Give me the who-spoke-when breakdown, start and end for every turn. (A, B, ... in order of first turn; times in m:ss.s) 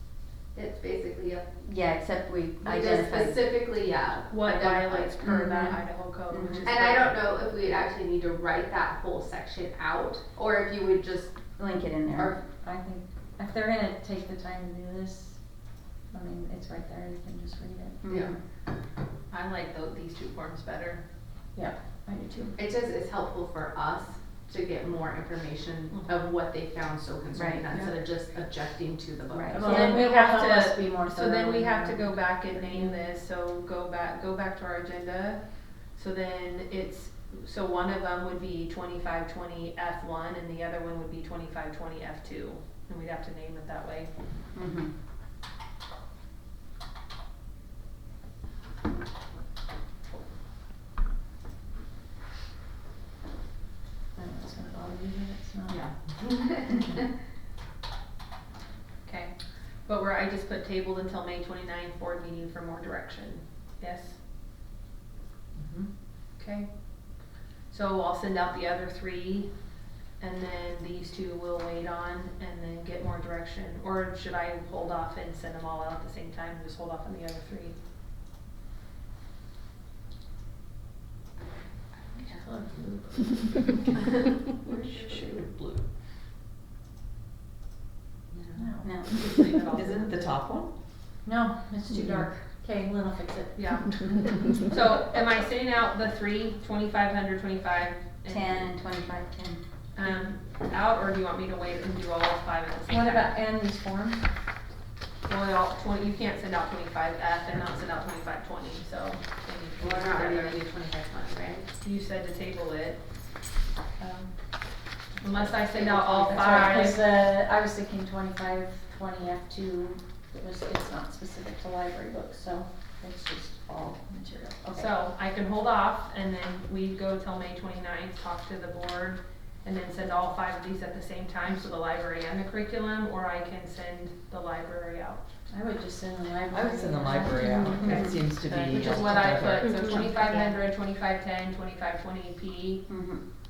0:00.5-0:01.6 A
0:01.6-0:03.5 B
0:02.6-0:05.6 A
0:04.3-0:07.2 C
0:06.3-0:06.6 B
0:06.6-0:11.5 A
0:11.6-0:12.3 B
0:12.2-0:12.4 A
0:12.4-0:15.4 D
0:16.1-0:18.4 D
0:18.0-0:18.3 A
0:19.3-0:21.0 C
0:21.6-0:22.6 D
0:22.6-0:30.1 A
0:25.9-0:26.3 C
0:27.3-0:27.7 B
0:29.3-0:29.6 B
0:29.5-0:33.0 D
0:29.6-0:35.4 C
0:36.0-0:44.1 C
0:44.6-0:44.9 B
0:54.2-0:55.8 D
0:55.7-0:56.9 A
0:56.7-0:57.0 D
0:59.0-1:04.2 C
1:05.6-1:05.9 E
1:06.4-1:09.6 C
1:10.2-1:17.8 C
1:22.2-1:23.9 D
1:24.6-1:25.8 E
1:24.7-1:25.3 C
1:28.6-1:29.0 D
1:28.8-1:29.1 B
1:29.1-1:30.4 C
1:29.7-1:30.7 E
1:31.2-1:34.4 D
1:33.6-1:34.0 C
1:34.5-1:38.7 C
1:38.3-1:39.6 B
1:40.0-1:43.3 C
1:42.9-1:44.3 D
1:45.3-1:50.9 C
1:49.8-1:51.7 A
1:51.8-1:53.0 C
1:54.0-1:54.3 D
1:55.2-1:57.0 C
1:55.7-1:56.8 A
1:55.8-2:04.9 D
2:04.8-2:15.2 C
2:15.5-2:19.3 D
2:16.5-2:19.9 E
2:17.7-2:22.9 C
2:19.6-2:20.0 B
2:20.2-2:20.5 A
2:22.9-2:23.2 B